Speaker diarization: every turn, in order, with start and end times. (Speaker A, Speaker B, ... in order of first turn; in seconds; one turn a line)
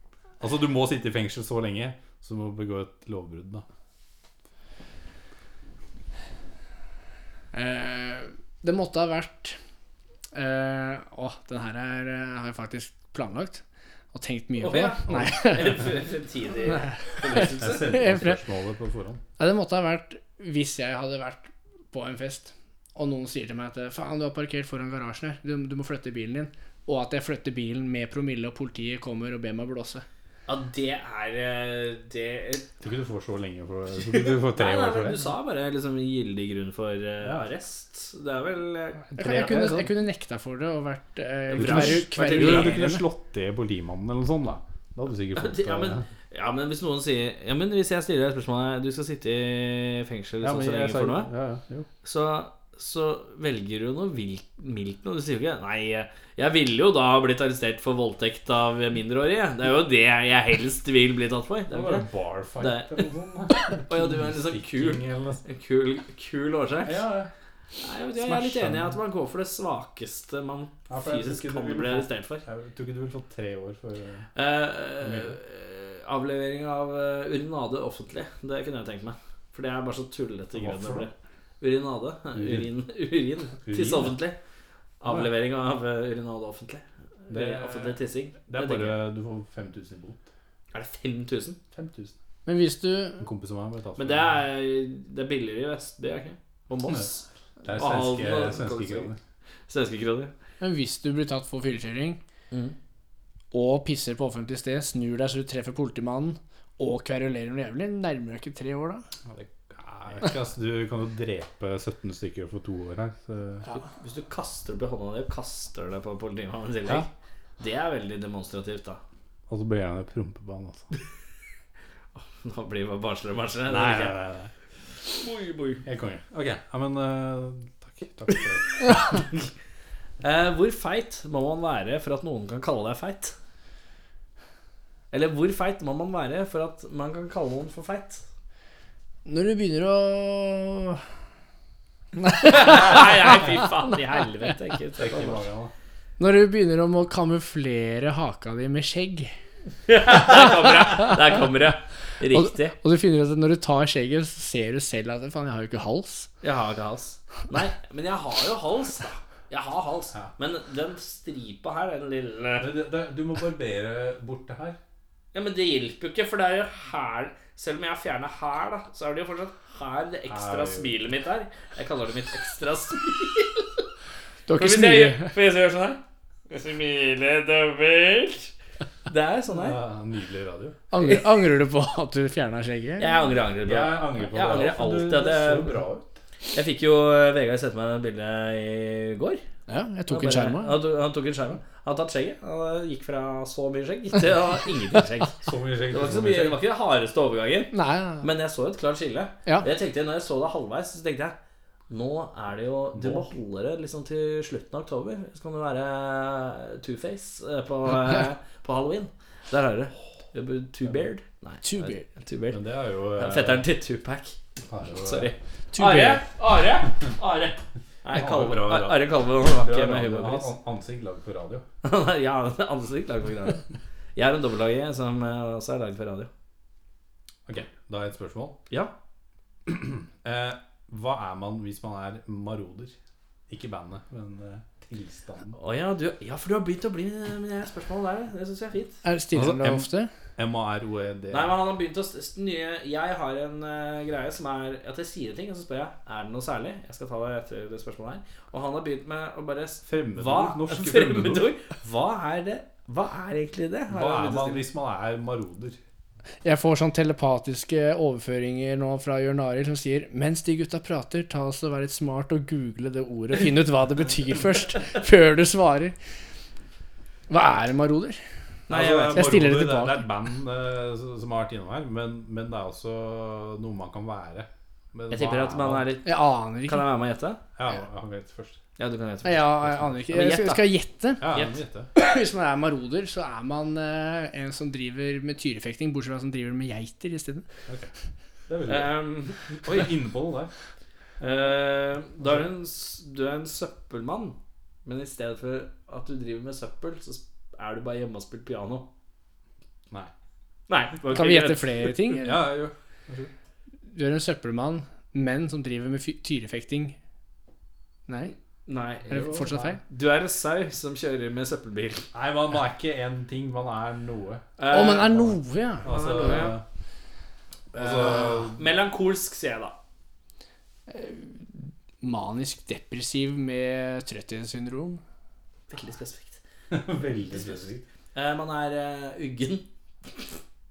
Speaker A: 0.4-3.6
Speaker B: 7.5-9.6
Speaker B: 10.3-15.9
Speaker C: 14.6-18.0
Speaker A: 15.1-15.8
Speaker B: 16.7-18.4
Speaker A: 17.3-19.2
Speaker B: 19.4-30.0
Speaker C: 30.5-32.7
Speaker A: 32.8-35.3
Speaker C: 34.1-39.8
Speaker A: 37.2-37.5
Speaker A: 39.1-39.9
Speaker B: 39.2-43.0
Speaker C: 41.5-42.8
Speaker A: 41.5-46.0
Speaker C: 45.3-51.3
Speaker A: 50.4-51.9
Speaker C: 52.0-62.1
Speaker A: 61.7-65.4
Speaker C: 62.6-63.1
Speaker C: 63.6-67.0
Speaker A: 66.8-67.3
Speaker C: 67.8-72.4
Speaker A: 68.2-69.0
Speaker A: 70.9-74.3
Speaker C: 74.3-84.4
Speaker A: 75.0-75.4
Speaker A: 80.5-81.1
Speaker A: 82.3-82.7
Speaker A: 83.6-84.2
Speaker C: 85.0-89.0
Speaker A: 87.3-90.3
Speaker C: 90.7-91.6
Speaker A: 91.7-92.2
Speaker B: 92.5-93.2
Speaker A: 93.2-94.4
Speaker C: 94.0-99.1
Speaker A: 97.6-99.2
Speaker C: 99.7-100.3
Speaker B: 100.6-102.2
Speaker B: 103.5-109.0
Speaker A: 109.3-113.7
Speaker C: 113.7-119.0
Speaker A: 119.5-120.9
Speaker C: 122.1-124.2
Speaker A: 123.7-124.5
Speaker C: 125.0-125.8
Speaker A: 125.8-129.2
Speaker C: 128.9-129.2
Speaker C: 130.2-133.3
Speaker C: 135.1-138.2
Speaker B: 139.2-141.0
Speaker B: 142.2-143.5
Speaker C: 142.4-145.4
Speaker A: 145.0-145.7
Speaker B: 146.2-149.3
Speaker C: 149.9-152.8
Speaker B: 150.2-151.1
Speaker B: 152.3-156.3
Speaker C: 156.4-162.7
Speaker A: 162.6-164.8
Speaker C: 165.3-173.8
Speaker A: 170.3-171.0
Speaker B: 174.5-175.3
Speaker C: 174.6-178.5
Speaker C: 179.1-179.8
Speaker A: 179.5-180.8
Speaker B: 180.9-183.2
Speaker C: 183.0-185.8
Speaker A: 183.6-186.2
Speaker C: 186.5-189.4
Speaker B: 189.7-190.8
Speaker C: 190.1-201.4
Speaker A: 195.4-196.6
Speaker B: 197.7-198.3
Speaker C: 201.9-212.6
Speaker A: 202.9-203.3
Speaker B: 211.6-212.1
Speaker A: 212.5-213.7
Speaker C: 213.2-214.4
Speaker A: 214.7-215.3
Speaker C: 214.9-220.5
Speaker B: 215.7-216.2
Speaker A: 218.1-221.6
Speaker C: 221.8-226.3
Speaker A: 227.5-228.6
Speaker A: 229.7-232.9
Speaker A: 233.5-235.6
Speaker C: 235.5-239.0
Speaker B: 239.0-240.1
Speaker A: 239.3-241.6
Speaker C: 241.3-254.7
Speaker A: 249.8-251.5
Speaker A: 253.9-255.8
Speaker B: 256.4-265.9
Speaker B: 267.3-268.2
Speaker C: 268.7-269.4
Speaker A: 268.7-275.9
Speaker B: 269.1-270.1
Speaker C: 275.1-277.4
Speaker B: 276.0-276.9
Speaker A: 277.6-278.6
Speaker C: 278.8-280.7
Speaker B: 279.2-281.3
Speaker A: 281.2-281.9
Speaker C: 281.3-281.6
Speaker B: 281.9-287.4
Speaker A: 288.5-288.9
Speaker C: 288.7-289.9
Speaker A: 289.6-290.5
Speaker C: 291.2-298.9
Speaker C: 300.7-301.9
Speaker B: 301.1-302.4
Speaker A: 302.2-303.3
Speaker B: 303.9-306.9
Speaker B: 308.1-308.3
Speaker C: 308.6-312.1
Speaker B: 309.1-309.8
Speaker A: 312.1-314.4
Speaker C: 314.6-315.3
Speaker B: 314.7-316.4
Speaker A: 315.0-315.3
Speaker A: 315.8-316.6
Speaker C: 315.8-316.6
Speaker A: 317.7-318.6
Speaker C: 317.7-319.8
Speaker B: 320.9-325.0
Speaker C: 325.7-326.4
Speaker A: 326.7-327.9
Speaker C: 327.2-327.6
Speaker C: 328.1-330.4